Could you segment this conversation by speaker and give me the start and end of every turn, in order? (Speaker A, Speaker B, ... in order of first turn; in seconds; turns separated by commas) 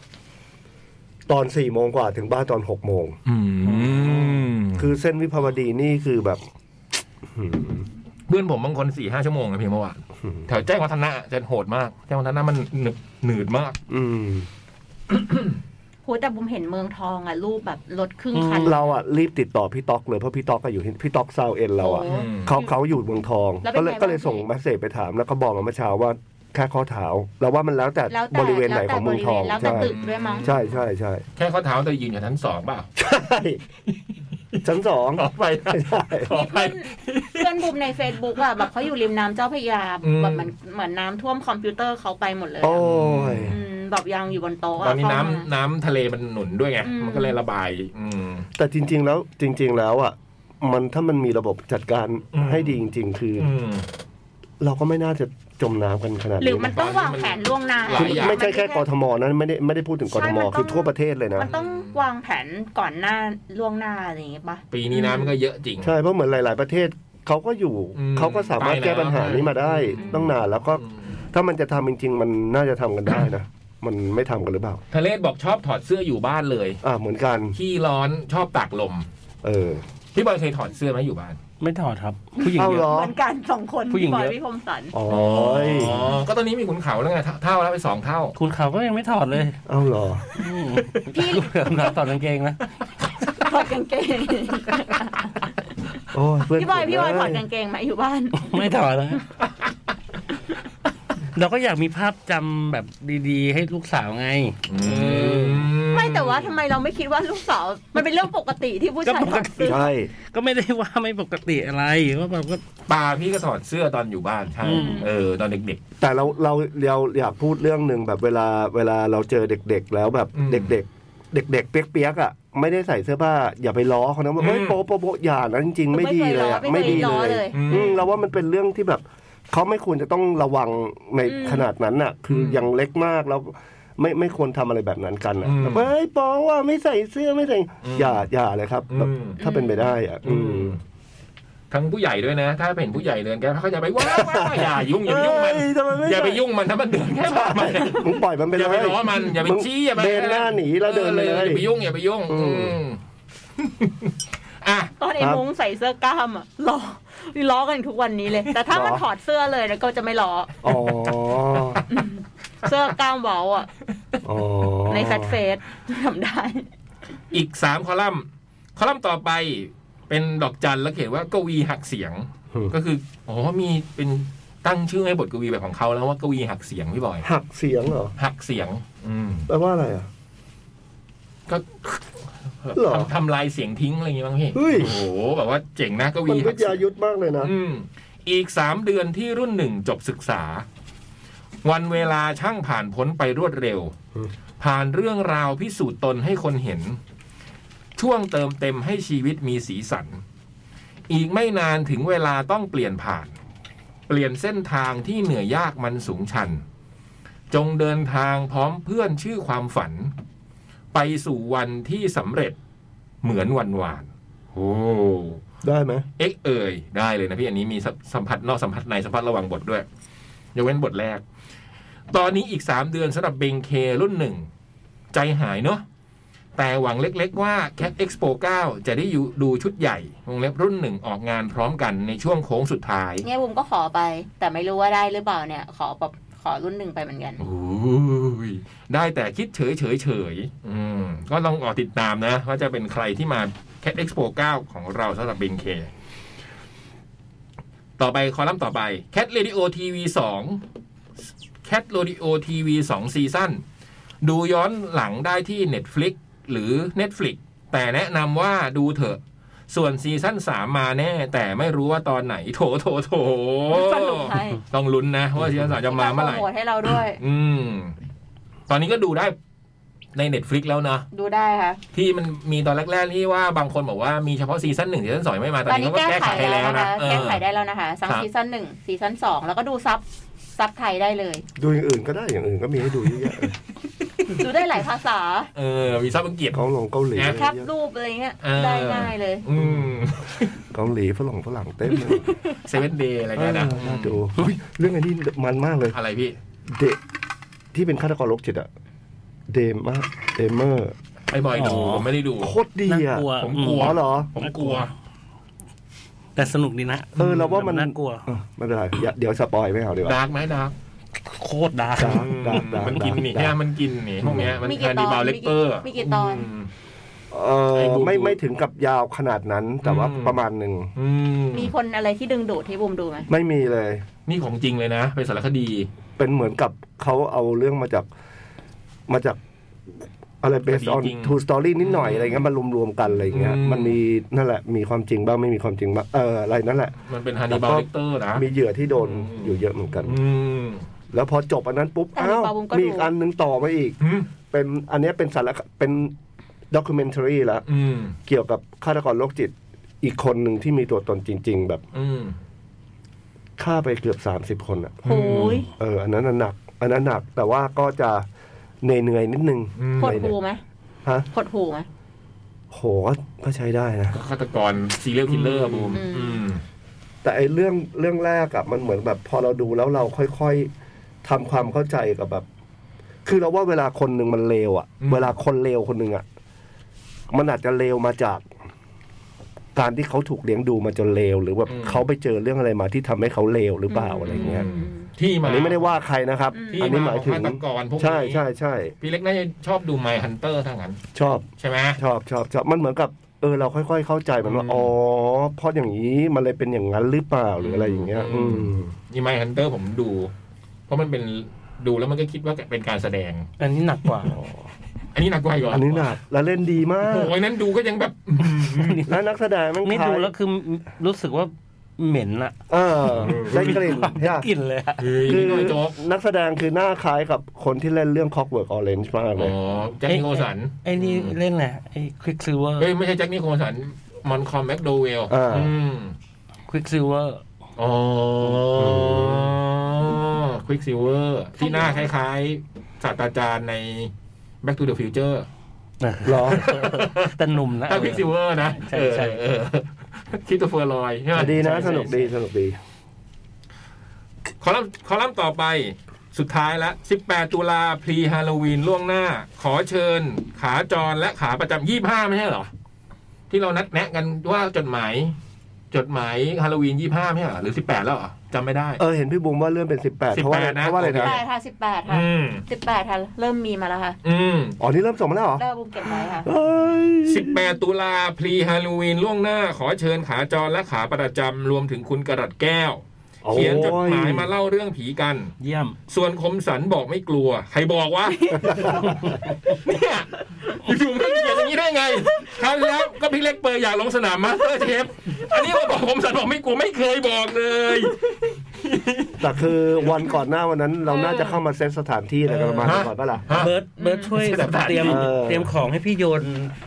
Speaker A: 1.3-3.2, Speaker B: 3.2-4.9, Speaker C: 3.7-4.4, Speaker A: 4.8-6.4, Speaker A: 7.3-7.8, Speaker B: 8.3-13.8, Speaker A: 13.9-14.5, Speaker B: 15.1-15.6, Speaker D: 16.1-18.8, Speaker C: 18.3-18.7, Speaker A: 18.6-31.2, Speaker D: 21.8-22.7, Speaker B: 22.1-22.5, Speaker D: 23.6-24.4, Speaker D: 28.1-30.5, Speaker B: 29.6-30.8, Speaker B: 31.4-32.9, Speaker A: 33.0-33.6, Speaker A: 34.6-36.3, Speaker B: 35.1-37.5, Speaker D: 36.3-42.8, Speaker B: 40.0-40.5, Speaker A: 42.6-43.6, Speaker B: 42.8-43.5, Speaker D: 43.5-45.5, Speaker B: 44.8-48.5, Speaker D: 46.8-47.4, Speaker A: 48.6-53.5, Speaker B: 52.3-52.8, Speaker B: 53.4-53.9, Speaker A: 54.6-56.7, Speaker D: 56.4-58.8, Speaker B: 56.7-58.4, Speaker A: 57.9-61.5, Speaker D: 60.1-65.3, Speaker B: 61.4-62.0, Speaker B: 64.7-65.9, Speaker A: 65.8-74.8, Speaker B: 67.9-71.0, Speaker D: 70.0-70.2, Speaker B: 74.9-76.8, Speaker A: 76.8-77.5, Speaker B: 77.5-79.1, Speaker A: 79.4-79.8, Speaker B: 80.1-81.4, Speaker C: 81.6-82.9, Speaker D: 82.3-84.9, Speaker A: 82.5-83.1, Speaker C: 83.9-84.3, Speaker A: 84.9-86.0, Speaker B: 85.1-88.3, Speaker C: 88.3-89.6, Speaker A: 89.7-90.2, Speaker C: 90.3-92.6, Speaker D: 91.1-91.5, Speaker D: 93.4-95.5, Speaker A: 96.1-97.4, Speaker D: 96.5-98.6, Speaker C: 98.4-99.2, Speaker C: 101.3-105.7, Speaker B: 104.7-106.5, Speaker D: 105.9-109.8, Speaker C: 109.0-112.6, Speaker A: 109.7-110.1, Speaker B: 112.9-115.8, Speaker C: 114.6-115.0, Speaker D: 114.7-115.1, Speaker A: 116.0-140.8, Speaker B: 120.3-120.7, Speaker B: 124.4-124.8, Speaker D: 125.9-128.0, Speaker B: 126.8-128.0, Speaker D: 131.2-131.7, Speaker B: 132.3-132.7, Speaker B: 135.4-135.9, Speaker B: 137.8-138.2, Speaker B: 138.9-139.4, Speaker D: 139.4-139.9, Speaker B: 140.2-140.8, Speaker B: 141.7-153.0, Speaker A: 144.0-146.4, Speaker A: 147.2-151.6, Speaker A: 152.3-152.8, Speaker B: 153.6-154.9, Speaker D: 155.0-160.6, Speaker A: 158.7-159.0, Speaker A: 160.6-161.8, Speaker B: 160.7-161.8, Speaker D: 161.9-163.7, Speaker A: 164.2-165.4, Speaker D: 164.9-166.7, Speaker B: 167.3-177.2, Speaker A: 177.2-178.1, Speaker B: 178.2-179.5, Speaker A: 179.5-180.1, Speaker B: 181.5-186.8, Speaker A: 182.7-183.1, Speaker A: 184.5-185.0, Speaker A: 186.2-187.5, Speaker B: 187.4-190.6, Speaker B: 191.6-193.9, Speaker B: 194.6-197.0, Speaker B: 198.0-200.2, Speaker B: 201.1-203.3, Speaker B: 204.1-206.6, Speaker B: 207.5-210.1, Speaker B: 210.9-212.6, Speaker B: 213.2-215.4, Speaker A: 215.6-216.1, Speaker B: 216.2-219.8, Speaker B: 220.5-221.2, Speaker B: 222.1-224.5, Speaker B: 225.1-225.8, Speaker B: 226.6-233.2, Speaker D: 233.2-237.4, Speaker B: 237.4-245.9, Speaker B: 248.0-250.6, Speaker B: 251.6-253.6, Speaker B: 254.2-266.4, Speaker D: 263.7-264.6, Speaker D: 265.9-267.2, Speaker B: 267.2-267.9, Speaker B: 268.7-269.4, Speaker B: 270.1-271.1, Speaker D: 271.1-271.8, Speaker B: 271.9-277.4, Speaker D: 275.7-280.0, Speaker D: 280.6-281.4, Speaker A: 281.6-283.6, Speaker D: 284.3-285.5, Speaker B: 285.5-286.6, Speaker A: 286.5-287.7, Speaker B: 287.1-287.4, Speaker D: 287.2-289.4, Speaker B: 288.4-290.5, Speaker A: 290.7-292.4, Speaker B: 292.6-294.2, Speaker A: 293.4-295.9, Speaker B: 295.9-296.4, Speaker A: 296.7-297.0, Speaker A: 297.7-298.7, Speaker A: 299.5-300.9, Speaker B: 301.3-302.5, Speaker C: 301.5-302.1, Speaker A: 302.4-304.3, Speaker C: 302.9-304.9, Speaker B: 303.4-304.9, Speaker C: 306.4-308.2, Speaker B: 307.1-307.6, Speaker A: 307.2-310.2, Speaker B: 310.0-310.7, Speaker C: 311.3-313.1, Speaker A: 311.9-313.6, Speaker B: 312.0-316.7, Speaker A: 314.2-314.6, Speaker D: 314.6-316.5, Speaker A: 317.3-320.9, Speaker B: 317.7-318.4, Speaker B: 319.8-320.4, Speaker B: 320.9-321.7, Speaker D: 321.5-323.3, Speaker A: 323.3-324.0, Speaker B: 324.3-325.9, Speaker A: 326.2-328.1, Speaker A: 329.1-329.4, Speaker A: 330.4-336.9, Speaker B: 330.7-332.4, Speaker B: 333.3-333.9, Speaker B: 337.0-338.4, Speaker A: 337.5-340.2, Speaker B: 339.0-340.9, Speaker A: 341.1-343.9, Speaker D: 342.1-343.1, Speaker B: 344.0-344.3, Speaker A: 344.5-346.1, Speaker A: 346.7-347.6, Speaker B: 347.7-348.1, Speaker A: 348.2-351.8, Speaker B: 351.9-352.4, Speaker A: 353.6-358.2, Speaker B: 355.0-355.6, Speaker D: 355.0-355.7, Speaker A: 358.8-360.3, Speaker B: 359.8-360.2, Speaker D: 360.0-360.6, Speaker D: 361.3-361.9, Speaker A: 362.7-364.2, Speaker B: 364.1-366.6, Speaker A: 365.3-366.0, Speaker D: 365.9-366.4, Speaker A: 367.2-370.7, Speaker A: 371.2-372.4, Speaker A: 373.2-376.2, Speaker B: 375.0-375.3, Speaker A: 377.3-378.5, Speaker A: 379.7-384.6, Speaker B: 381.7-382.0, Speaker D: 383.9-385.1, Speaker B: 384.3-385.9, Speaker A: 385.4-388.9, Speaker D: 386.5-386.9, Speaker B: 386.7-388.4, Speaker B: 389.0-391.0, Speaker A: 391.1-398.9, Speaker B: 391.6-392.0, Speaker B: 394.4-394.9, Speaker B: 397.6-400.3, Speaker B: 400.9-403.5, Speaker C: 403.6-404.3, Speaker A: 404.3-404.6, Speaker B: 405.1-406.1, Speaker A: 405.7-407.3, Speaker B: 407.1-409.0, Speaker C: 408.7-409.1, Speaker A: 409.1-410.3, Speaker C: 409.8-412.5, Speaker A: 412.7-414.4, Speaker B: 413.2-413.8, Speaker C: 413.2-415.4, Speaker B: 415.0-415.9, Speaker A: 415.2-419.6, Speaker B: 419.4-421.4, Speaker C: 420.1-422.9, Speaker B: 422.8-426.1, Speaker A: 425.3-425.7, Speaker C: 426.7-427.4, Speaker B: 427.8-434.1, Speaker A: 428.8-429.6, Speaker D: 431.6-432.1, Speaker B: 434.6-435.5, Speaker C: 436.0-439.4, Speaker A: 436.2-436.6, Speaker B: 436.4-437.3, Speaker B: 437.9-442.3, Speaker A: 441.3-442.8, Speaker B: 444.6-452.7, Speaker B: 453.5-455.4, Speaker B: 455.9-459.0, Speaker A: 459.0-461.4, Speaker B: 460.3-461.4, Speaker D: 461.1-464.2, Speaker B: 462.1-462.6, Speaker B: 464.2-464.8, Speaker A: 464.8-465.6, Speaker D: 465.6-466.5, Speaker A: 466.3-467.6, Speaker B: 467.2-475.5, Speaker A: 473.4-474.5, Speaker C: 475.6-475.9, Speaker B: 476.1-479.0, Speaker D: 478.2-479.1, Speaker A: 478.6-479.0, Speaker C: 479.1-479.3, Speaker B: 479.7-489.5, Speaker D: 481.2-481.7, Speaker A: 489.4-493.5, Speaker B: 491.1-491.6, Speaker C: 492.5-493.0, Speaker B: 492.8-493.7, Speaker C: 493.5-496.7, Speaker D: 494.0-494.4, Speaker B: 494.3-495.3, Speaker A: 495.0-495.7